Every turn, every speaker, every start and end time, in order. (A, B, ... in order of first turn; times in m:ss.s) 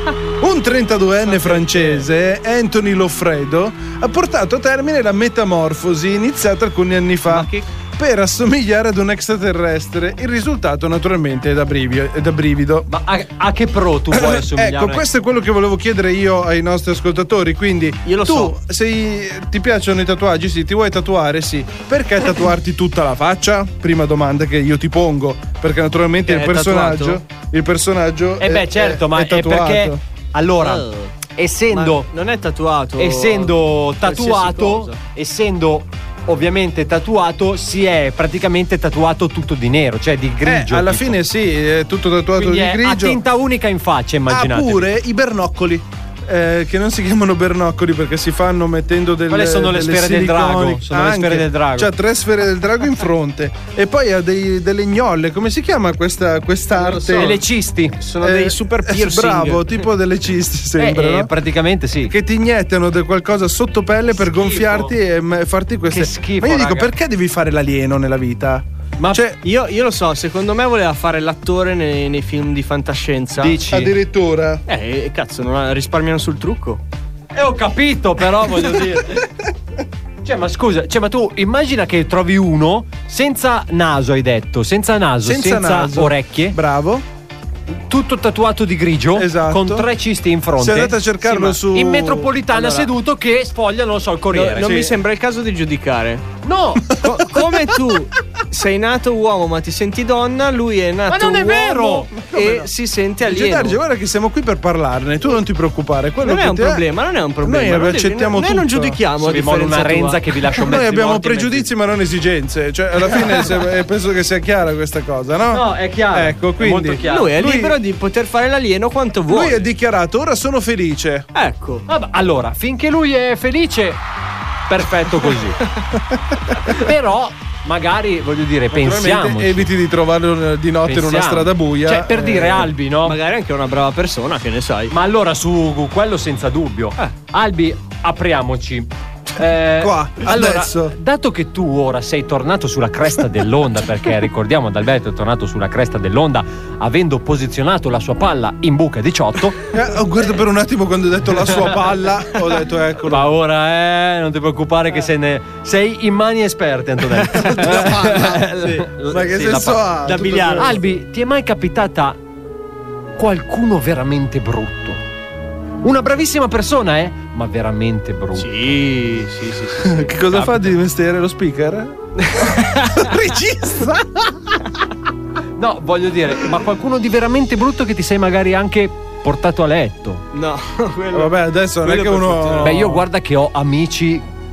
0:00.4-0:12.9 A
0:01.2-0:02.1 B
0:07.2-0:07.7 B
0:12.9-0:15.0 C
0:14.1-0:30.0 A
0:18.0-0:18.6 B
0:26.2-0:27.2 B
0:28.4-0:32.1 C
0:30.6-0:31.2 B
0:31.7-0:35.0 B
0:33.0-0:41.2 C
0:40.4-0:43.2 A
0:42.4-0:44.9 C
0:44.3-0:57.4 A
0:49.3-0:51.9 C
0:56.8-0:57.4 B
0:57.1-0:58.0 C
0:58.0-0:59.8 B
0:58.2-1:01.3 A
1:00.8-1:02.1 C
1:02.0-1:09.4 A
1:04.1-1:04.9 C
1:05.9-1:06.9 C
1:09.0-1:09.2 C
1:09.4-1:13.6 B
1:13.4-1:13.9 C
1:13.7-1:14.6 A
1:14.7-1:16.8 B
1:17.3-1:19.3 C
1:20.2-1:26.6 C
1:25.2-1:27.0 A
1:27.9-1:34.8 C
1:29.2-1:29.9 A
1:30.6-1:32.5 A
1:32.5-1:32.9 B
1:34.3-1:36.3 B
1:34.6-1:35.0 A
1:36.4-1:37.0 C
1:36.9-1:37.6 A
1:37.0-1:43.8 B
1:41.1-1:42.2 C
1:42.3-1:46.8 A
1:46.2-1:50.2 B
1:47.4-1:49.0 A
1:49.2-1:51.6 C
1:50.6-1:57.8 A
1:51.2-1:51.6 B
1:55.5-1:57.3 C
1:57.0-1:59.7 B
1:59.3-2:01.3 A
2:01.3-2:01.9 B
2:01.9-2:04.0 C
2:04.7-2:05.6 C
2:06.7-2:09.7 C
2:08.7-2:12.7 A
2:10.9-2:13.2 C
2:13.0-2:14.9 B
2:14.9-2:29.6 C
2:19.8-2:21.0 A
2:29.7-2:33.3 A
2:33.1-2:39.9 C
2:37.3-2:38.5 A
2:37.4-2:38.9 B
2:39.0-2:40.8 A
2:39.5-2:40.8 B
2:40.6-2:42.2 C
2:43.2-2:45.0 C
2:45.8-2:48.5 C
2:48.4-2:50.7 B
2:49.8-2:54.5 A
2:52.2-2:53.2 B
2:55.6-3:00.2 C
3:00.3-3:03.0 B
3:01.1-3:03.0 A
3:02.6-3:04.3 C